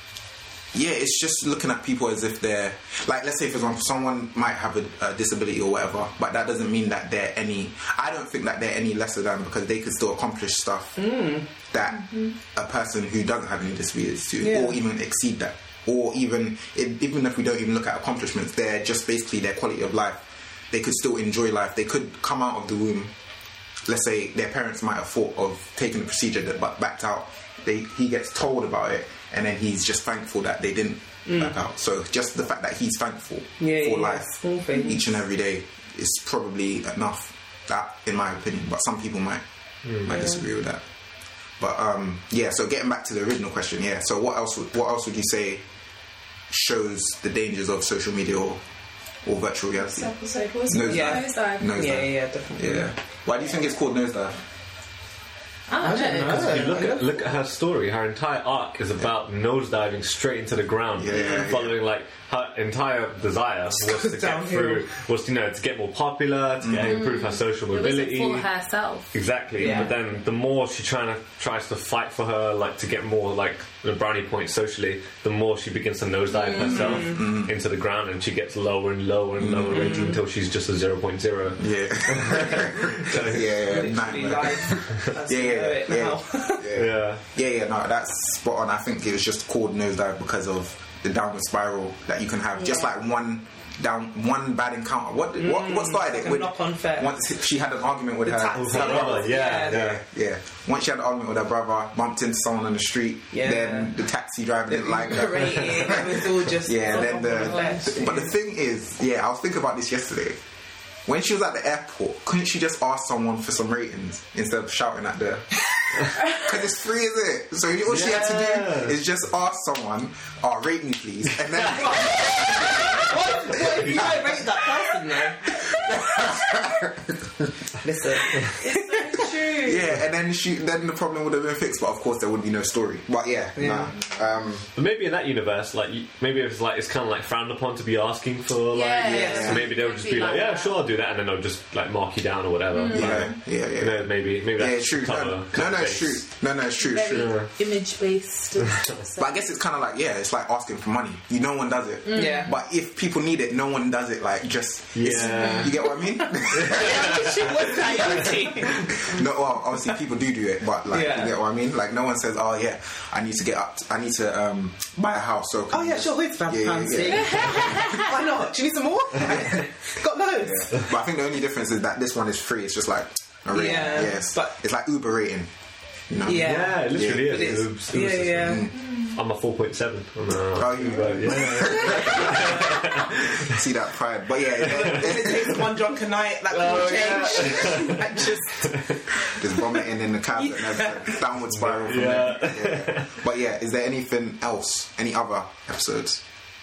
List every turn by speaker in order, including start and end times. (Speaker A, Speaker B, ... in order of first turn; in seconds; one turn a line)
Speaker A: 0.7-11.0
Speaker B: 11.0-11.5
Speaker A: 11.7-23.1
Speaker C: 12.0-12.3
Speaker B: 14.4-14.8
Speaker A: 23.9-39.4
Speaker B: 31.2-31.5
Speaker B: 33.6-35.0
Speaker D: 39.8-40.1
Speaker A: 40.0-40.8
Speaker B: 40.1-40.4
Speaker A: 41.6-45.6
Speaker A: 46.5-48.6
Speaker A: 49.2-50.1
Speaker C: 49.9-51.8
Speaker A: 50.7-54.4
Speaker B: 50.8-52.9
Speaker C: 55.7-56.5
Speaker B: 55.8-57.2
Speaker D: 56.2-68.5
Speaker A: 61.0-61.8
Speaker B: 61.1-61.4
Speaker B: 63.7-64.8
Speaker A: 66.6-67.0
Speaker C: 66.8-69.8
Speaker D: 69.1-83.8
Speaker B: 69.6-69.9
Speaker C: 76.3-76.8
Speaker B: 76.5-77.2
Speaker A: 76.6-77.5
Speaker A: 79.4-80.1
Speaker B: 79.7-80.2
Speaker A: 81.6-110.4
Speaker B: 83.1-86.7
Speaker D: 84.7-85.1
Speaker D: 86.7-87.2
Speaker B: 95.4-97.1
Speaker B: 98.2-99.8
Speaker D: 98.5-100.0
Speaker B: 103.3-103.9
Speaker B: 104.7-108.3
Speaker C: 106.9-108.1
Speaker A: 111.0-124.5
Speaker D: 117.8-119.0
Speaker B: 122.9-125.6
Speaker A: 125.4-127.5
Speaker B: 127.8-128.5
Speaker C: 128.4-129.9
Speaker A: 129.4-134.7
Speaker B: 133.6-133.9
Speaker D: 134.7-146.2
Speaker C: 138.7-140.8
Speaker B: 139.1-139.6
Speaker A: 139.1-139.6
Speaker C: 142.7-143.3
Speaker A: 142.9-147.3
Speaker C: 146.8-149.3
Speaker D: 147.1-147.5
Speaker A: 149.2-158.4
Speaker C: 152.1-152.5
Speaker B: 152.1-152.5
Speaker D: 154.9-155.8
Speaker C: 155.2-155.7
Speaker B: 155.8-159.1
Speaker D: 156.5-157.4
Speaker A: 158.9-168.0
Speaker B: 160.9-161.3
Speaker B: 165.7-170.9
Speaker C: 167.4-168.0
Speaker A: 169.2-169.6
Speaker A: 170.4-175.5
Speaker B: 173.5-174.5
Speaker C: 173.7-174.1
Speaker A: 176.1-177.7
Speaker B: 176.2-178.7
Speaker D: 176.3-183.5
Speaker A: 178.3-178.7
Speaker A: 180.5-185.7
Speaker B: 184.6-189.7
Speaker D: 186.5-189.0
Speaker A: 189.3-196.2
Speaker B: 190.4-191.2
Speaker D: 191.5-193.1